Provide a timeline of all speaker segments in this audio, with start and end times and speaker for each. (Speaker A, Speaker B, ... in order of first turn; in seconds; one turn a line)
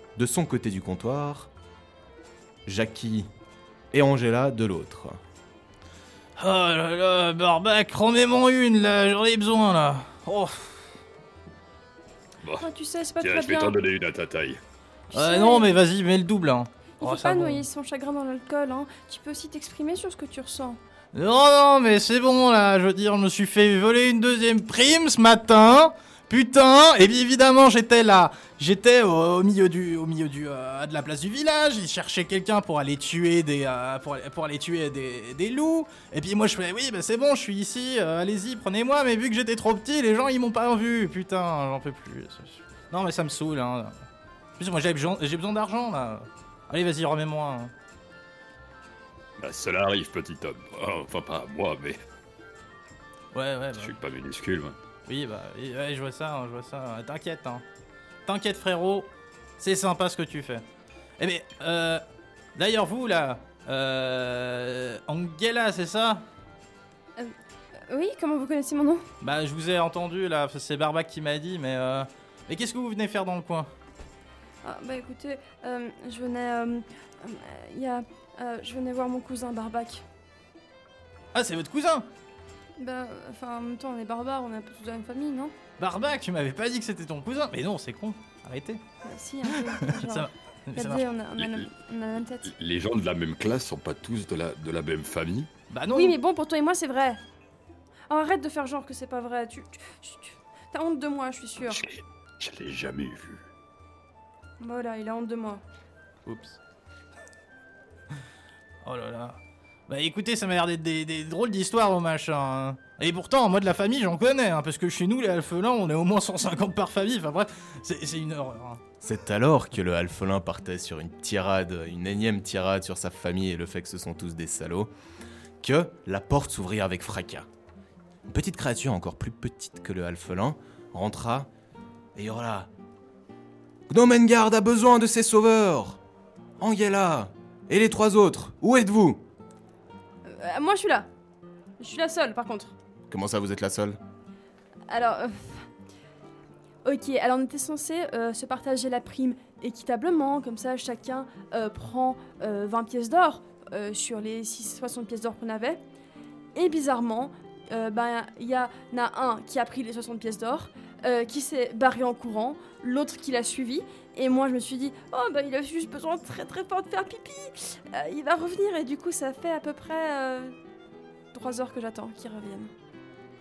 Speaker A: 0.1-1.5
Speaker A: 2.7-3.3
Speaker A: 3.9-5.2
Speaker B: 6.4-10.8
Speaker C: 12.4-14.6
Speaker D: 12.6-13.8
Speaker D: 15.1-15.8
Speaker B: 15.1-17.6
Speaker D: 17.0-20.8
Speaker B: 21.1-44.0
Speaker B: 44.6-47.7
Speaker C: 49.4-52.0
Speaker B: 53.3-54.0
Speaker C: 53.7-54.8
Speaker B: 55.0-57.6
Speaker B: 58.3-60.6
Speaker B: 61.2-62.0
Speaker B: 62.5-66.2
Speaker D: 67.9-69.0
Speaker B: 69.2-73.7
Speaker D: 74.6-80.0
Speaker B: 81.3-82.0
Speaker D: 82.8-85.5
Speaker B: 85.8-88.8
Speaker D: 89.0-92.5
Speaker B: 89.4-91.0
Speaker C: 91.4-91.7
Speaker C: 92.4-95.5
Speaker B: 95.7-96.2
Speaker D: 95.9-97.2
Speaker D: 98.1-101.8
Speaker C: 101.7-103.5
Speaker D: 104.6-105.6
Speaker B: 106.2-106.6
Speaker B: 108.8-118.8
Speaker A: 119.0-124.9
Speaker A: 125.6-127.5
Speaker A: 128.3-131.5
Speaker A: 132.2-132.7
Speaker A: 133.9-136.0
Speaker A: 136.6-139.2
Speaker D: 140.2-141.1
Speaker D: 141.8-142.7
Speaker A: 143.1-144.0
Speaker D: 144.9-145.7
Speaker D: 146.8-155.8
Speaker D: 156.6-170.6
Speaker D: 171.3-172.7